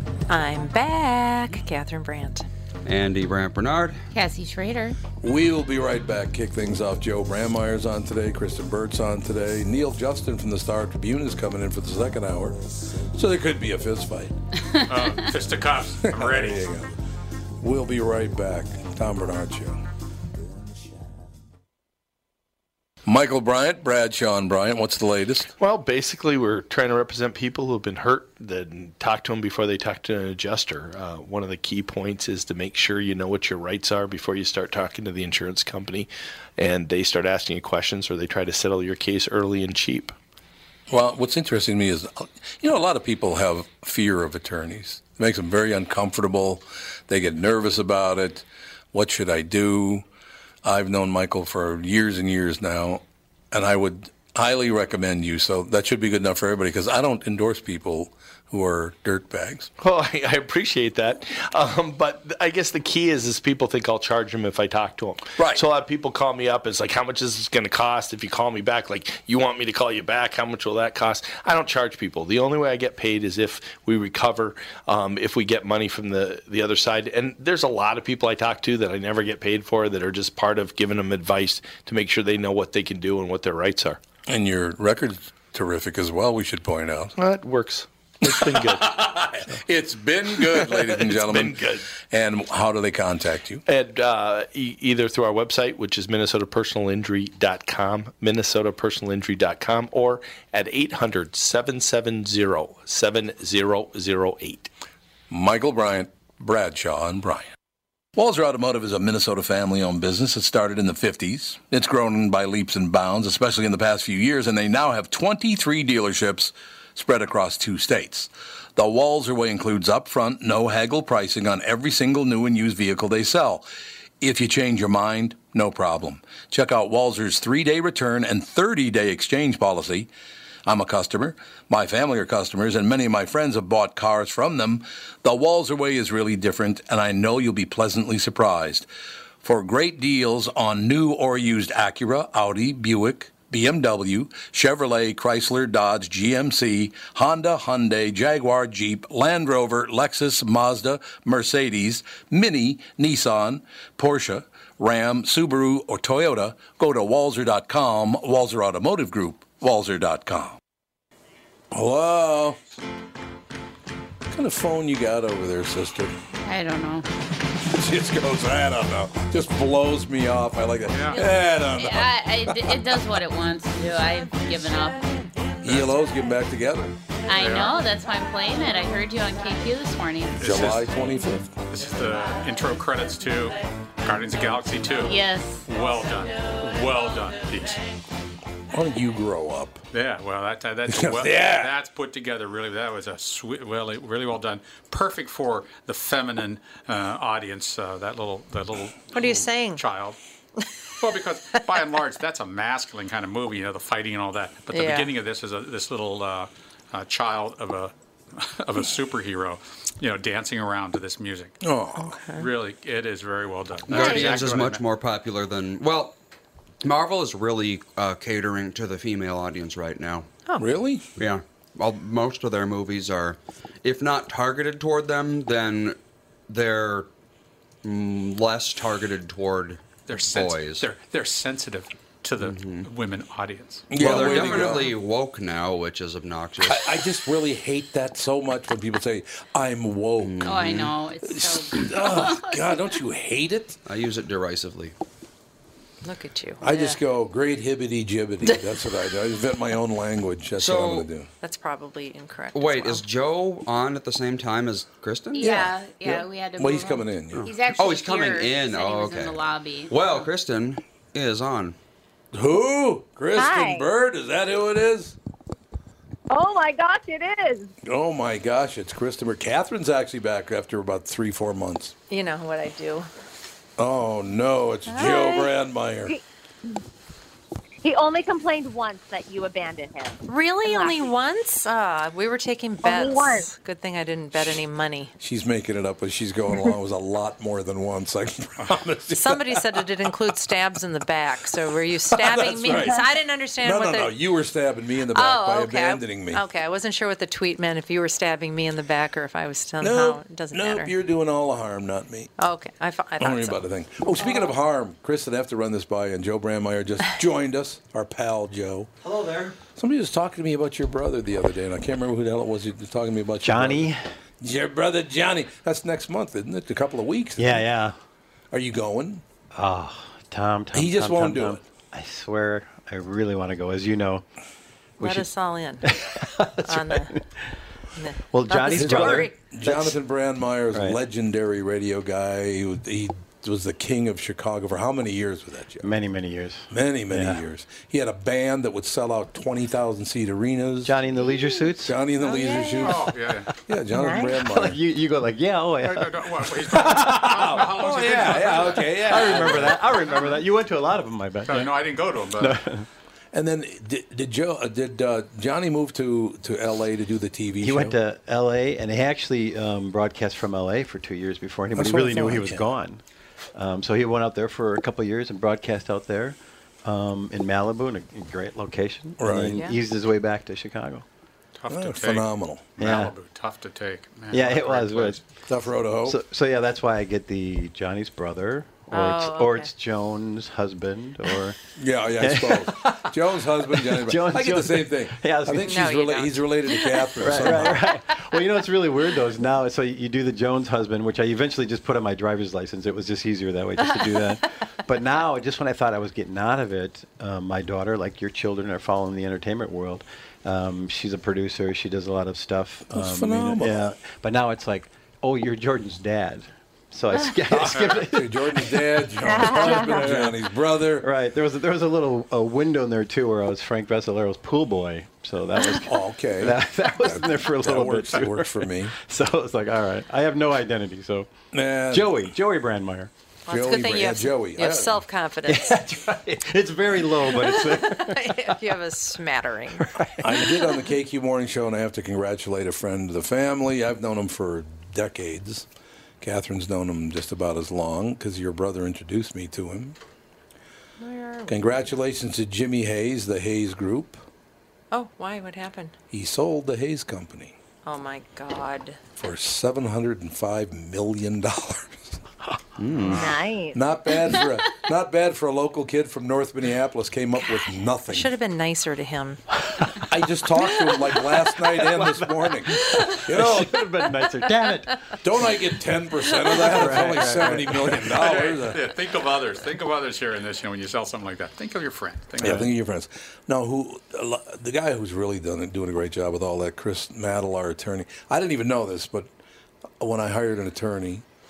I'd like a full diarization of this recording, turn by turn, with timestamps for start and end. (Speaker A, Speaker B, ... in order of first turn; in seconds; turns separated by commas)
Speaker A: 0.3-2.4, Speaker B: 2.8-4.0, Speaker C: 4.1-5.0, Speaker D: 5.2-14.3, Speaker C: 14.7-15.2, Speaker E: 14.8-16.6, Speaker D: 16.0-16.9, Speaker D: 17.6-19.8, Speaker D: 23.0-25.5, Speaker F: 25.6-40.1, Speaker D: 40.9-50.0, Speaker D: 50.6-59.7, Speaker F: 59.8-84.0, Speaker D: 65.3-65.6, Speaker D: 84.3-87.1, Speaker F: 87.2-89.4, Speaker D: 88.2-93.6, Speaker F: 90.3-91.8, Speaker F: 93.7-104.7, Speaker D: 105.3-107.5, Speaker D: 108.2-123.7, Speaker D: 124.2-130.1, Speaker D: 130.6-138.9, Speaker D: 139.4-160.6, Speaker D: 161.7-162.6, Speaker D: 164.3-166.1, Speaker C: 166.4-167.1, Speaker D: 167.6-173.0, Speaker E: 170.9-171.2, Speaker C: 171.7-175.3, Speaker D: 175.6-176.9, Speaker C: 177.3-180.4, Speaker E: 177.3-177.8, Speaker D: 180.4-181.5, Speaker E: 180.4-180.9, Speaker E: 181.7-187.8, Speaker C: 185.0-185.6, Speaker D: 188.7-189.8, Speaker E: 189.9-200.2, Speaker D: 190.9-191.7, Speaker A: 199.1-199.8, Speaker E: 201.0-211.6, Speaker A: 204.7-205.1, Speaker D: 211.6-212.2, Speaker A: 212.0-212.4, Speaker E: 212.3-214.8, Speaker B: 213.9-216.2, Speaker C: 213.9-214.3, Speaker B: 216.8-220.3, Speaker D: 220.6-221.1, Speaker B: 221.2-226.0, Speaker B: 226.5-227.1, Speaker B: 227.8-230.8, Speaker E: 230.1-234.0, Speaker B: 232.4-232.9, Speaker D: 233.9-234.9, Speaker B: 233.9-236.9, Speaker D: 236.6-243.8, Speaker B: 240.2-240.9, Speaker C: 240.4-242.6, Speaker B: 243.8-244.9, Speaker A: 246.0-247.0, Speaker D: 246.6-251.3, Speaker B: 250.6-251.1, Speaker A: 251.4-253.0, Speaker B: 252.5-255.5, Speaker C: 255.3-260.0, Speaker D: 255.4-257.6, Speaker B: 257.7-261.8, Speaker D: 262.3-265.2, Speaker G: 263.3-263.8, Speaker G: 266.3-267.7, Speaker D: 267.8-271.9, Speaker A: 272.1-273.1, Speaker D: 273.8-276.1, Speaker A: 274.9-275.5, Speaker G: 276.1-276.8, Speaker G: 277.8-281.1, Speaker A: 280.3-285.1, Speaker G: 282.8-283.5, Speaker D: 285.2-290.1, Speaker A: 289.1-294.1, Speaker D: 292.1-293.1, Speaker D: 293.6-296.4, Speaker A: 295.1-300.9, Speaker D: 299.8-302.3, Speaker A: 302.4-303.6, Speaker D: 303.2-308.9, Speaker H: 309.0-309.6, Speaker D: 309.8-317.6, Speaker H: 313.4-314.1, Speaker H: 317.4-317.9, Speaker D: 318.5-319.2, Speaker H: 319.5-324.2, Speaker D: 320.7-321.6, Speaker A: 325.0-325.9, Speaker H: 325.0-325.3, Speaker H: 325.8-327.5, Speaker A: 326.6-327.1, Speaker A: 327.9-329.4, Speaker H: 328.3-329.9, Speaker D: 328.7-335.9, Speaker H: 330.7-331.0, Speaker H: 335.8-337.4, Speaker D: 336.7-343.1, Speaker H: 340.8-342.0, Speaker A: 342.4-342.8, Speaker E: 342.8-343.5, Speaker D: 343.6-344.8, Speaker H: 344.0-346.9, Speaker E: 345.8-350.2, Speaker D: 346.7-349.8, Speaker H: 348.8-351.8, Speaker E: 351.5-352.6, Speaker H: 352.4-352.9, Speaker D: 353.3-357.9, Speaker H: 357.6-363.0, Speaker D: 361.7-362.6, Speaker H: 363.5-371.0, Speaker D: 369.2-369.6, Speaker A: 369.5-369.8, Speaker E: 371.6-375.2, Speaker D: 371.7-372.7, Speaker H: 372.8-373.1, Speaker H: 374.3-375.2, Speaker D: 375.5-376.2, Speaker H: 376.0-381.6, Speaker A: 378.9-379.7, Speaker D: 381.8-387.9, Speaker H: 382.2-385.8, Speaker A: 385.6-387.7, Speaker H: 387.1-410.4, Speaker D: 402.9-403.8, Speaker D: 407.5-411.1, Speaker E: 407.7-408.1, Speaker G: 409.2-410.1, Speaker H: 410.9-421.3, Speaker D: 415.7-418.9, Speaker D: 421.5-422.1, Speaker H: 421.9-423.1, Speaker A: 423.5-425.8, Speaker D: 423.5-425.0, Speaker H: 425.4-428.8, Speaker A: 427.3-429.9, Speaker H: 429.8-430.8, Speaker D: 430.2-435.7, Speaker D: 436.2-440.0, Speaker A: 441.0-441.8, Speaker D: 441.5-444.2, Speaker A: 444.9-445.9, Speaker D: 446.1-447.5, Speaker A: 447.8-449.0, Speaker D: 449.1-452.2, Speaker B: 452.8-453.2, Speaker D: 453.0-458.3, Speaker G: 453.0-453.8, Speaker A: 458.1-459.4, Speaker H: 459.7-460.1, Speaker D: 460.0-463.9, Speaker H: 460.8-465.5, Speaker A: 462.8-463.2, Speaker D: 465.2-468.9, Speaker H: 466.3-468.1, Speaker E: 468.0-472.7, Speaker D: 472.4-479.3, Speaker H: 472.4-472.7, Speaker D: 480.0-481.2